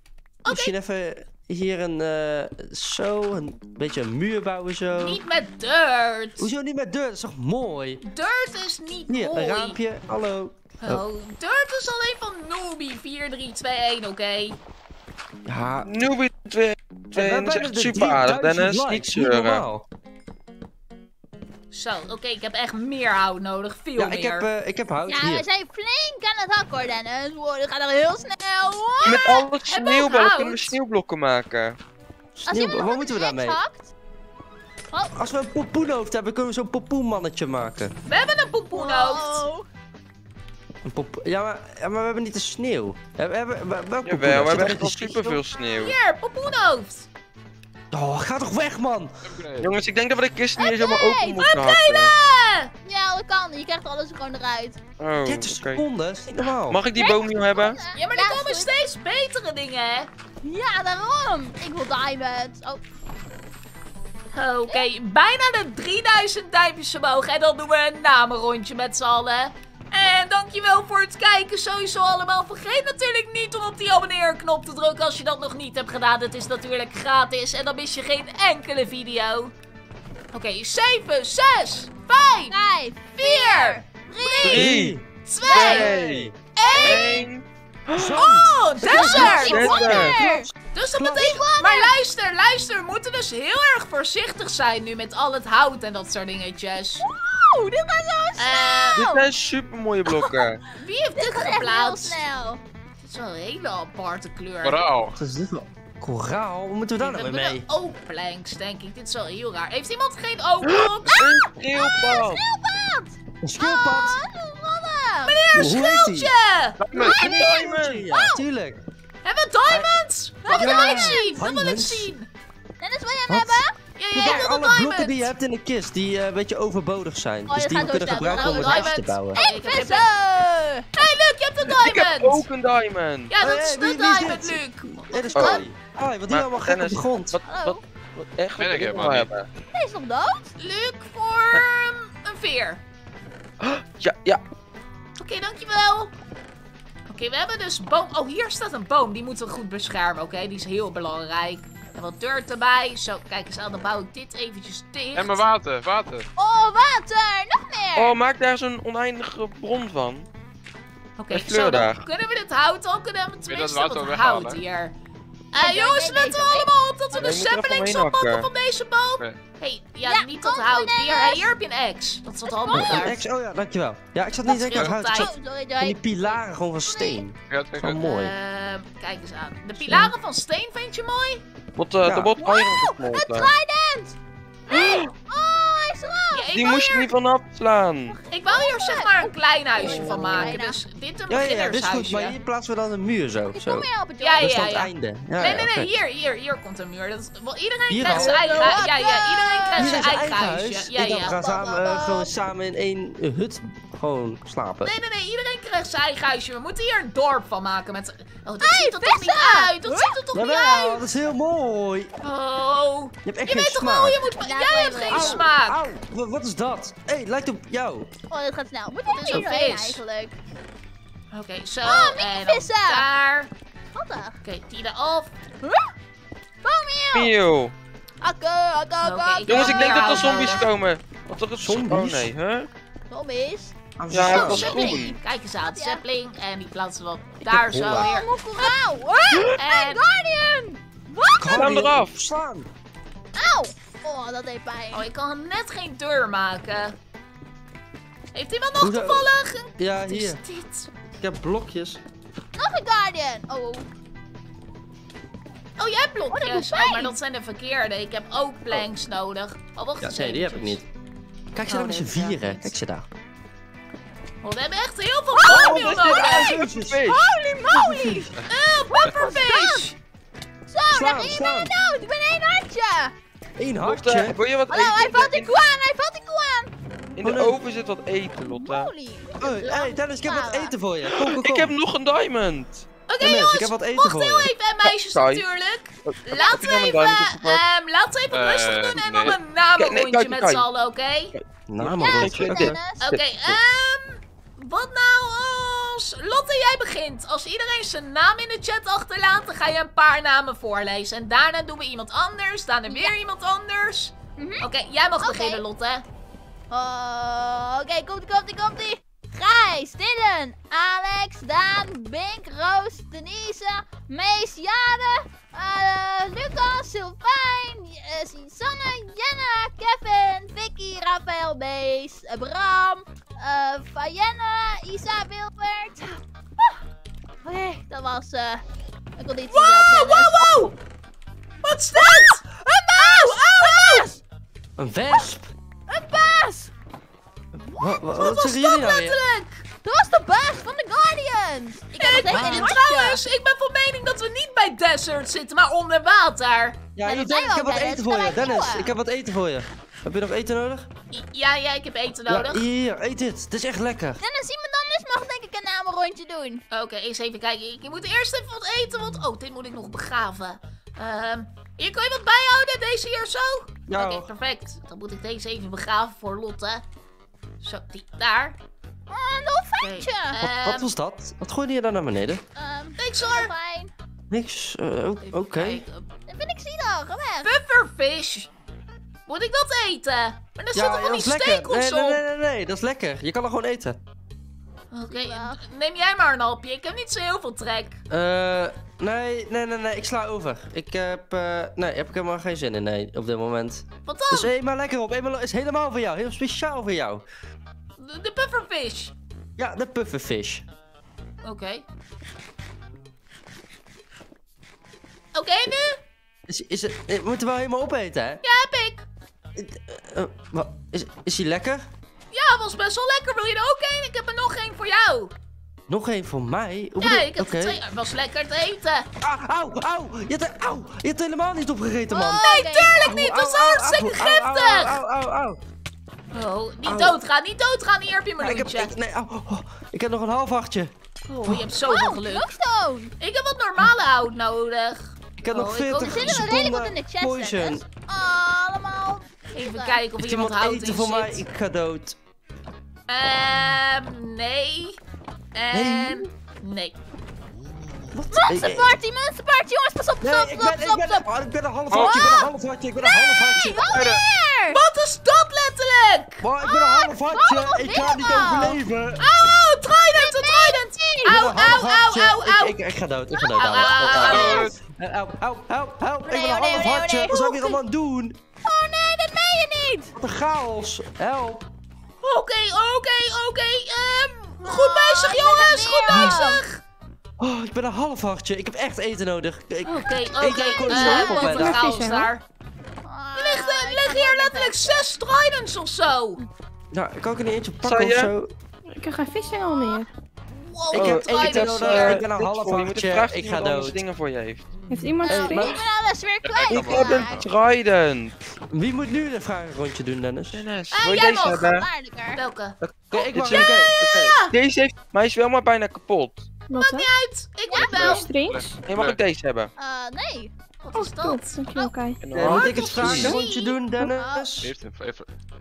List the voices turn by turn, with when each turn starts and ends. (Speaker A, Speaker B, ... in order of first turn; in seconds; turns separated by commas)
Speaker A: 0.4-0.7, Speaker B: 0.5-5.2, Speaker A: 5.0-6.5, Speaker B: 6.4-8.0, Speaker A: 8.0-9.8, Speaker B: 9.1-11.0, Speaker A: 10.8-14.6, Speaker B: 15.5-15.9, Speaker C: 15.8-19.6, Speaker B: 17.1-19.9, Speaker A: 21.7-24.5, Speaker B: 24.0-25.4, Speaker D: 25.1-29.3, Speaker C: 29.0-31.8, Speaker A: 29.0-30.8, Speaker B: 32.4-33.6, Speaker D: 32.5-33.9, Speaker B: 35.1-37.9, Speaker A: 38.1-39.4, Speaker D: 38.7-39.7, Speaker B: 40.9-45.4, Speaker C: 44.0-46.0, Speaker A: 45.6-47.1, Speaker B: 47.9-49.3, Speaker E: 49.2-49.7, Speaker C: 49.6-52.1, Speaker D: 50.6-51.4, Speaker A: 51.4-52.7, Speaker D: 52.8-54.8, Speaker C: 55.0-55.8, Speaker B: 55.2-56.8, Speaker C: 56.7-57.8, Speaker D: 57.0-58.7, Speaker A: 57.9-60.1, Speaker D: 60.4-62.9, Speaker A: 64.3-79.5, Speaker A: 80.3-82.6, Speaker D: 82.5-84.6, Speaker A: 83.2-84.7, Speaker C: 84.4-86.3, Speaker B: 84.4-86.3, Speaker A: 85.2-85.9, Speaker D: 85.4-85.9, Speaker A: 86.5-87.3, Speaker D: 86.6-87.3, Speaker C: 86.8-88.2, Speaker B: 87.9-91.4, Speaker A: 88.2-90.1, Speaker D: 88.8-90.5, Speaker C: 89.2-90.2, Speaker A: 90.7-97.1, Speaker D: 91.2-91.9, Speaker D: 97.0-99.3, Speaker A: 98.4-99.0, Speaker C: 99.0-100.6, Speaker D: 100.1-100.5, Speaker A: 100.8-102.2, Speaker D: 101.2-102.6, Speaker A: 103.0-104.9, Speaker E: 104.6-105.2, Speaker B: 105.2-107.7, Speaker A: 107.0-111.3, Speaker C: 110.7-112.4, Speaker D: 111.1-115.4, Speaker B: 113.4-114.2, Speaker A: 115.2-116.8, Speaker B: 115.5-116.3, Speaker C: 116.8-118.1, Speaker D: 116.9-118.4, Speaker B: 116.9-118.8, Speaker A: 119.2-122.3, Speaker B: 119.7-120.0, Speaker D: 120.4-121.4, Speaker B: 120.5-122.1, Speaker D: 122.8-123.8, Speaker B: 123.3-129.4, Speaker A: 124.0-125.3, Speaker D: 127.5-130.9, Speaker A: 128.1-130.1, Speaker A: 130.9-132.4, Speaker C: 131.7-133.3, Speaker A: 133.3-135.6, Speaker B: 133.4-137.4, Speaker C: 135.4-135.7, Speaker C: 136.3-139.5, Speaker D: 137.5-137.8, Speaker E: 138.6-139.3, Speaker D: 139.7-140.5, Speaker A: 140.6-142.8, Speaker C: 143.6-144.4, Speaker A: 145.2-146.1, Speaker A: 147.1-155.4, Speaker E: 155.2-156.3, Speaker D: 156.4-158.2, Speaker C: 158.0-160.3, Speaker A: 161.2-164.9, Speaker C: 161.3-162.1, Speaker E: 163.5-164.6, Speaker A: 165.5-173.2, Speaker D: 165.6-167.2, Speaker C: 167.2-168.5, Speaker D: 170.0-171.5, Speaker D: 172.5-173.2, Speaker B: 172.7-178.3, Speaker A: 174.5-175.3, Speaker D: 174.8-177.2, Speaker E: 177.5-178.0, Speaker A: 178.0-181.4, Speaker B: 179.8-180.1, Speaker C: 181.8-183.5, Speaker B: 182.1-182.3, Speaker D: 182.4-184.2, Speaker C: 184.7-185.1, Speaker D: 184.7-186.5, Speaker A: 186.3-187.1, Speaker C: 186.5-188.2, Speaker D: 188.1-190.8, Speaker A: 188.3-192.4, Speaker C: 189.8-190.5, Speaker B: 191.3-195.9, Speaker D: 193.5-194.5, Speaker A: 194.2-201.4, Speaker B: 197.9-198.8, Speaker D: 198.1-200.1, Speaker B: 199.8-204.9, Speaker D: 201.3-202.3, Speaker A: 204.8-211.0, Speaker D: 208.6-210.2, Speaker B: 210.3-212.1, Speaker A: 212.2-216.0, Speaker B: 213.2-214.2, Speaker D: 214.2-215.4, Speaker B: 215.1-218.1, Speaker D: 218.3-220.4, Speaker A: 219.1-220.0, Speaker A: 221.3-223.5, Speaker D: 221.8-223.1, Speaker D: 223.9-224.4, Speaker A: 224.4-225.3, Speaker D: 225.6-225.9, Speaker D: 226.6-227.3, Speaker C: 227.1-227.8, Speaker D: 228.2-230.6, Speaker A: 229.0-230.7, Speaker C: 229.5-232.7, Speaker B: 231.6-232.3, Speaker D: 233.1-233.8, Speaker B: 234.0-234.9, Speaker C: 234.1-235.2, Speaker D: 234.3-236.0, Speaker A: 234.4-238.7, Speaker B: 237.5-238.1, Speaker D: 237.9-241.9, Speaker A: 239.6-240.1, Speaker B: 241.4-242.7, Speaker C: 241.5-242.1, Speaker D: 243.4-245.1, Speaker A: 244.9-246.9, Speaker A: 248.3-250.9, Speaker B: 248.8-250.4, Speaker B: 251.2-252.0, Speaker D: 252.6-253.9, Speaker A: 255.8-260.8, Speaker D: 256.3-257.1, Speaker B: 260.0-260.9, Speaker B: 261.5-263.1, Speaker A: 261.7-262.7, Speaker A: 264.4-266.5, Speaker D: 265.4-265.8, Speaker C: 265.5-267.3, Speaker B: 265.5-268.4, Speaker D: 267.0-268.3, Speaker A: 268.5-270.0, Speaker D: 268.9-269.9, Speaker D: 270.7-273.2, Speaker B: 270.9-271.8, Speaker B: 273.6-274.4, Speaker C: 273.8-275.5, Speaker D: 274.7-276.7, Speaker C: 277.2-278.9, Speaker B: 277.2-277.6, Speaker D: 278.4-280.7, Speaker B: 279.4-281.7, Speaker C: 281.1-282.9, Speaker A: 283.1-291.3, Speaker B: 283.2-284.5, Speaker C: 284.8-285.4, Speaker C: 286.1-287.6, Speaker E: 288.3-289.4, Speaker C: 289.8-290.6, Speaker C: 291.4-293.6, Speaker B: 291.7-292.8, Speaker D: 291.9-293.0, Speaker A: 293.0-306.0, Speaker D: 302.9-303.1, Speaker D: 304.4-304.7, Speaker D: 305.2-305.6, Speaker D: 306.7-326.2, Speaker D: 327.4-328.6, Speaker D: 329.2-330.6, Speaker A: 329.5-330.8, Speaker A: 331.6-334.1, Speaker D: 332.0-334.2, Speaker B: 334.8-335.5, Speaker D: 335.9-336.7, Speaker B: 337.7-339.2, Speaker A: 338.0-339.6, Speaker D: 339.8-343.2, Speaker A: 342.0-346.8, Speaker B: 342.2-342.8, Speaker B: 346.9-350.9, Speaker D: 347.1-348.9, Speaker A: 351.1-352.6, Speaker B: 352.3-354.2, Speaker D: 354.2-356.6, Speaker A: 356.7-366.8, Speaker B: 363.9-364.3, Speaker A: 367.6-368.6, Speaker D: 369.1-370.4, Speaker A: 369.8-370.9, Speaker B: 370.4-372.4, Speaker D: 372.6-373.9, Speaker A: 373.0-373.5, Speaker B: 374.3-375.8, Speaker A: 375.2-376.1, Speaker D: 376.3-377.6, Speaker A: 377.4-378.5, Speaker A: 379.3-382.2, Speaker B: 380.7-384.0, Speaker A: 384.9-388.0, Speaker D: 385.1-385.6, Speaker B: 388.1-397.2, Speaker A: 394.1-394.5, Speaker A: 398.0-399.1, Speaker B: 399.6-400.6, Speaker A: 401.4-401.8, Speaker A: 405.4-406.0, Speaker B: 406.5-408.4, Speaker A: 408.4-409.1, Speaker B: 409.6-411.9, Speaker A: 412.3-415.3, Speaker B: 415.9-417.8, Speaker A: 417.0-419.1, Speaker B: 419.2-425.6, Speaker A: 422.1-425.0, Speaker D: 422.2-423.0, Speaker A: 426.3-428.9, Speaker B: 426.9-427.2, Speaker B: 428.4-430.9, Speaker A: 431.3-432.5, Speaker D: 431.9-433.1, Speaker A: 433.2-436.6, Speaker B: 435.4-437.8, Speaker D: 435.9-440.0, Speaker A: 439.5-441.4, Speaker B: 440.2-442.2, Speaker A: 443.1-445.0, Speaker A: 445.5-447.0, Speaker B: 445.7-446.3, Speaker B: 448.1-449.0, Speaker D: 448.3-451.2, Speaker B: 450.2-454.0, Speaker E: 451.9-452.2, Speaker D: 451.9-454.8, Speaker E: 453.8-454.2, Speaker A: 454.7-456.4, Speaker B: 456.4-459.2, Speaker D: 456.6-458.8, Speaker A: 459.2-462.8, Speaker D: 460.1-461.4, Speaker B: 461.2-468.4, Speaker D: 463.4-464.2, Speaker A: 463.6-464.7, Speaker E: 464.1-464.8, Speaker D: 466.3-467.8, Speaker D: 468.6-470.1, Speaker B: 470.2-471.7, Speaker A: 472.2-476.8, Speaker D: 474.6-476.6, Speaker B: 476.1-476.4, Speaker B: 477.4-481.9, Speaker A: 479.8-482.4, Speaker F: 480.9-482.3, Speaker D: 483.0-485.0, Speaker A: 483.4-486.4, Speaker B: 486.9-488.5, Speaker C: 487.8-488.3, Speaker F: 488.9-490.1, Speaker D: 489.5-490.0, Speaker A: 490.5-492.2, Speaker B: 490.9-494.0, Speaker C: 490.9-494.7, Speaker F: 494.9-495.8, Speaker D: 495.2-497.4, Speaker B: 495.3-495.8, Speaker E: 496.4-497.5, Speaker C: 496.7-498.4, Speaker B: 498.7-500.7, Speaker C: 500.5-501.9, Speaker A: 500.9-501.8, Speaker D: 501.5-502.4, Speaker A: 502.4-504.6, Speaker B: 502.8-504.4, Speaker C: 503.3-503.9, Speaker C: 504.5-506.5, Speaker F: 506.7-507.1, Speaker A: 506.8-508.3, Speaker D: 507.7-508.1, Speaker E: 507.8-509.2, Speaker F: 508.0-508.8, Speaker C: 508.9-509.7, Speaker D: 509.8-510.5, Speaker A: 510.8-511.6, Speaker F: 510.9-512.5, Speaker C: 512.2-513.4, Speaker B: 512.3-514.7, Speaker A: 512.4-513.8, Speaker F: 513.1-513.4, Speaker D: 514.1-514.6, Speaker E: 514.6-515.3